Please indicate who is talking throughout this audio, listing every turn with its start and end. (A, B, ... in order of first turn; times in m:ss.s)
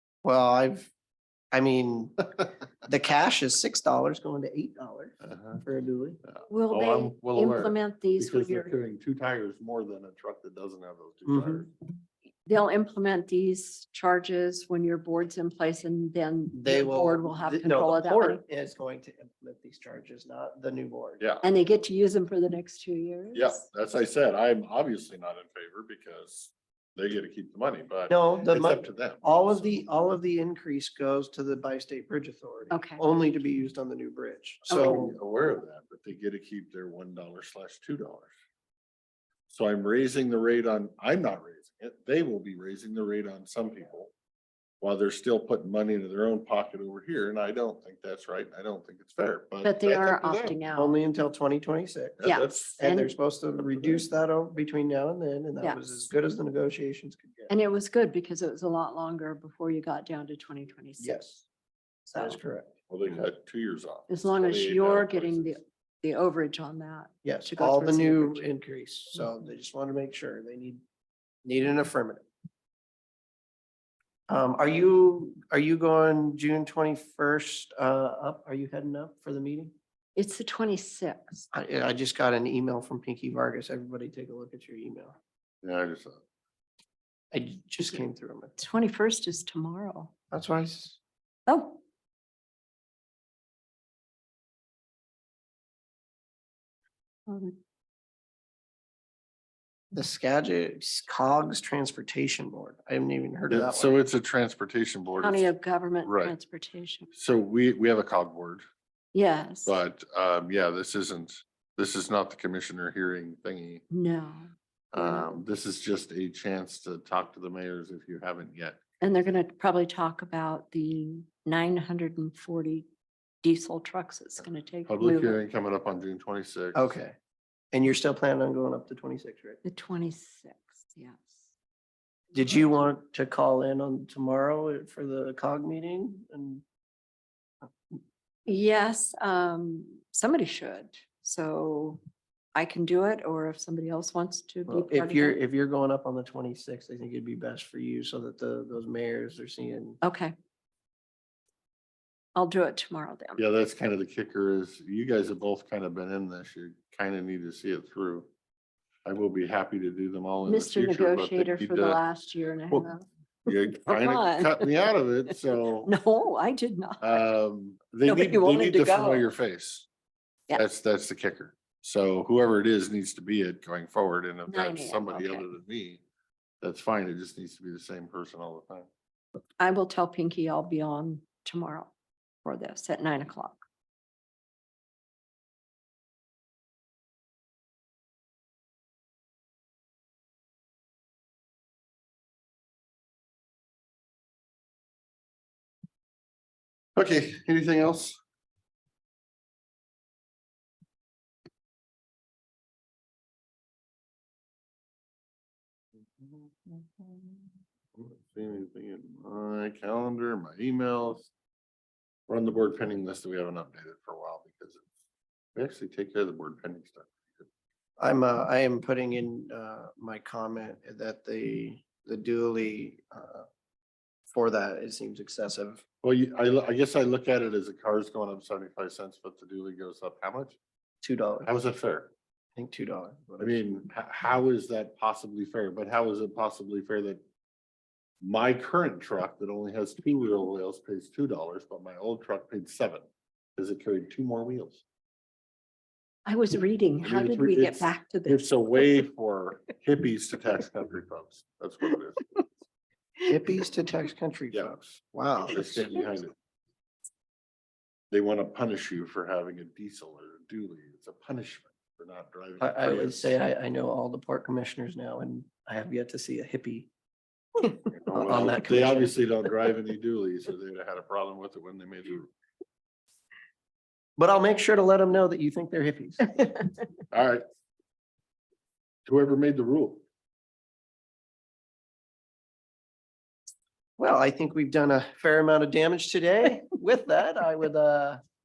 0:00.2-0:00.9 A
0:01.5-0:06.2 A
0:05.2-0:05.6 B
0:06.2-0:11.7 B
0:06.5-0:08.7 C
0:11.3-0:11.7 A
0:12.5-0:18.4 C
0:16.5-0:21.2 A
0:21.2-0:21.4 B
0:21.4-0:23.6 C
0:23.4-0:29.6 B
0:28.1-0:35.2 A
0:32.7-0:33.0 C
0:34.7-0:35.1 C
0:34.7-0:38.3 B
0:39.5-0:44.1 B
0:44.8-0:50.6 B
0:49.6-0:51.0 C
0:50.8-0:57.5 A
0:52.2-0:52.8 B
0:52.2-0:53.1 C
0:53.8-0:54.0 B
0:55.6-0:56.1 C
0:57.5-1:01.2 C
1:01.0-1:01.5 A
1:02.1-1:02.7 A
1:02.9-1:05.6 B
1:04.1-1:08.5 C
1:07.2-1:10.8 A
1:11.4-1:12.2 A
1:14.3-1:19.7 A
1:20.2-1:21.5 C
1:21.5-1:25.2 A
1:25.6-1:26.2 B
1:27.3-1:28.6 A
1:28.6-1:30.1 C
1:30.3-1:31.0 A
1:31.5-1:31.8 C
1:37.3-1:37.6 C
1:39.9-1:44.0 A
1:43.5-1:45.5 B
1:45.2-1:47.1 C
1:46.0-1:46.4 B
1:47.2-1:48.6 B
1:49.1-1:49.8 C
1:49.7-1:53.8 B
1:53.9-1:55.4 C
1:54.9-1:58.8 B
1:59.0-2:02.9 C
2:03.4-2:05.4 C
2:04.9-2:07.0 B
2:06.7-2:07.2 A
2:07.7-2:09.6 A
2:09.6-2:11.4 C
2:12.3-2:16.6 A
2:18.5-2:22.0 C
2:22.6-2:25.4 C
2:24.7-2:30.0 A
2:30.0-2:30.4 C
2:32.4-2:33.4 C
2:33.4-2:38.3 B
2:39.1-2:42.0 B
2:40.4-2:44.7 C
2:43.5-2:45.9 B
2:45.3-2:47.2 C
2:47.0-2:49.9 B
2:48.1-2:49.3 C
2:50.5-2:56.0 B
2:54.5-2:55.4 C
2:56.6-2:58.9 B
2:59.6-3:01.9 C
3:02.4-3:03.6 C
3:17.0-3:18.2 B
3:26.2-3:31.3 B
3:32.3-3:34.9 B
3:35.6-3:37.5 B
3:38.0-3:43.5 A
3:44.3-3:45.8 A
3:46.0-3:50.6 B
3:51.0-3:51.5 A
3:51.4-3:52.1 B
3:52.6-3:53.7 A
3:53.4-3:57.2 B
3:58.2-4:04.8 B
4:06.3-4:09.0 C
4:07.0-4:12.4 B
4:13.2-4:16.1 A
4:14.5-4:14.8 B
4:15.4-4:16.3 B
4:18.1-4:23.4 B
4:22.6-4:26.9 A
4:27.6-4:29.2 A
4:27.9-4:32.3 B
4:34.2-4:36.7 A
4:37.1-4:37.4 B
4:39.1-4:40.0 B
4:44.0-4:48.2 A